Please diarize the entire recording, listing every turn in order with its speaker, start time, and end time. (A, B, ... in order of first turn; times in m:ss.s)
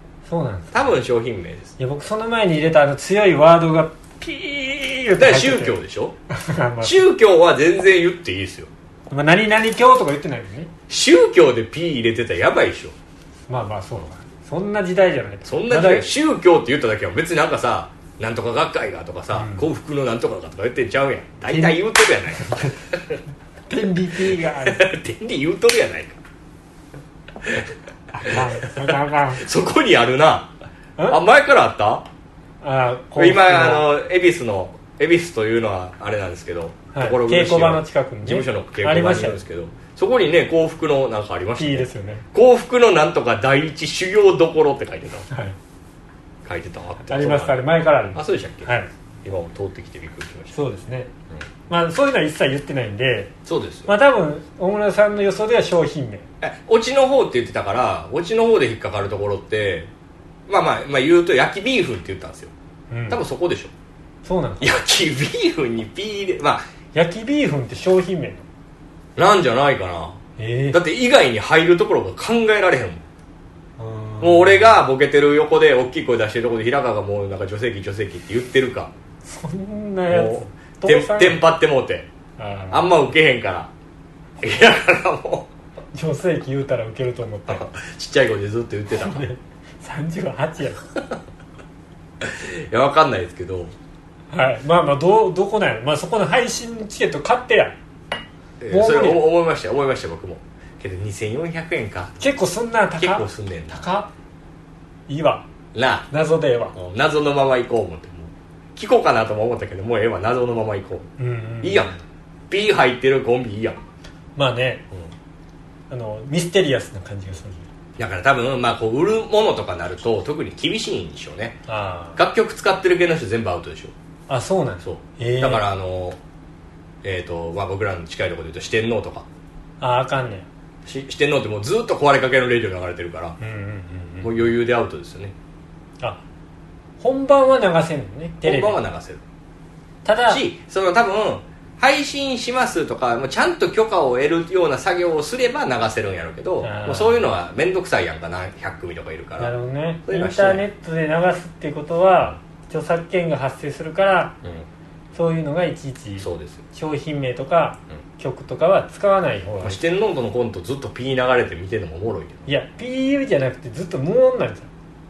0:00.3-0:00.8 A
0:00.7-0:01.7 B
0:01.8-0:05.8 A
0:05.2-0:06.1 B
0:06.3-0:07.0 A
0:06.8-0:08.7 B
0:09.1-0:10.7 A
0:10.9-0:12.9 B
0:13.5-0:16.1 A
0:15.4-0:23.2 B
0:19.3-0:19.7 A
0:21.5-0:21.8 A
0:22.3-0:22.9 A
0:23.7-0:24.8 A
0:24.3-0:26.2 B
0:27.4-0:27.7 B
0:28.1-0:29.4 A
0:28.2-0:30.5 B
0:31.1-0:32.0 B
0:32.6-0:33.8 A
0:33.2-0:45.2 B
0:36.9-0:39.4 A
0:41.6-0:42.2 A
0:45.3-0:45.6 A
0:46.4-0:47.6 B
0:47.1-0:48.9 A
0:48.1-0:50.6 B
0:50.5-0:51.1 A
0:51.7-0:53.3 A
0:53.4-0:53.9 B
0:53.8-0:56.3 A
0:56.4-0:59.9 B
1:00.5-1:02.5 B
1:02.9-1:03.2 A
1:03.1-1:03.7 B
1:04.2-1:04.8 A
1:04.6-1:06.6 B
1:06.9-1:08.4 A
1:09.2-1:10.2 B
1:10.4-1:10.8 A
1:10.7-1:13.0 B
1:13.8-1:14.7 A
1:14.2-1:18.9 B
1:19.2-1:21.4 A
1:20.1-1:22.1 B
1:22.4-1:22.9 A
1:22.7-1:23.7 B
1:24.4-1:25.5 B
1:25.9-1:27.6 A
1:27.5-1:29.3 B
1:28.9-1:30.8 A
1:32.2-1:33.7 B
1:34.3-1:37.8 A
1:38.6-1:42.2 B
1:38.7-1:39.2 A
1:42.2-1:44.1 A
1:43.0-1:43.8 B
1:45.1-1:45.5 A
1:45.7-1:46.1 B
1:46.1-1:46.8 A
1:46.7-1:51.1 B
1:51.2-1:52.0 A
1:51.6-1:52.0 B
1:52.5-1:53.8 B
1:54.4-1:54.8 A
1:55.9-1:57.6 A
1:58.0-2:01.6 B
2:01.7-2:02.2 A
2:02.2-2:03.9 B
2:04.3-2:05.6 A
2:04.8-2:06.2 B
2:07.0-2:09.3 B
2:09.8-2:10.5 A
2:10.8-2:13.4 B
2:13.4-2:14.4 A
2:14.2-2:15.3 B
2:17.0-2:18.8 A
2:18.4-2:19.2 B
2:20.0-2:20.4 A
2:20.3-2:29.5 B
2:26.6-2:27.2 A
2:29.4-2:34.4 A
2:30.0-2:30.6 B
2:35.1-2:39.8 A
2:36.2-2:36.6 B
2:39.6-2:42.5 B
2:42.5-2:44.7 A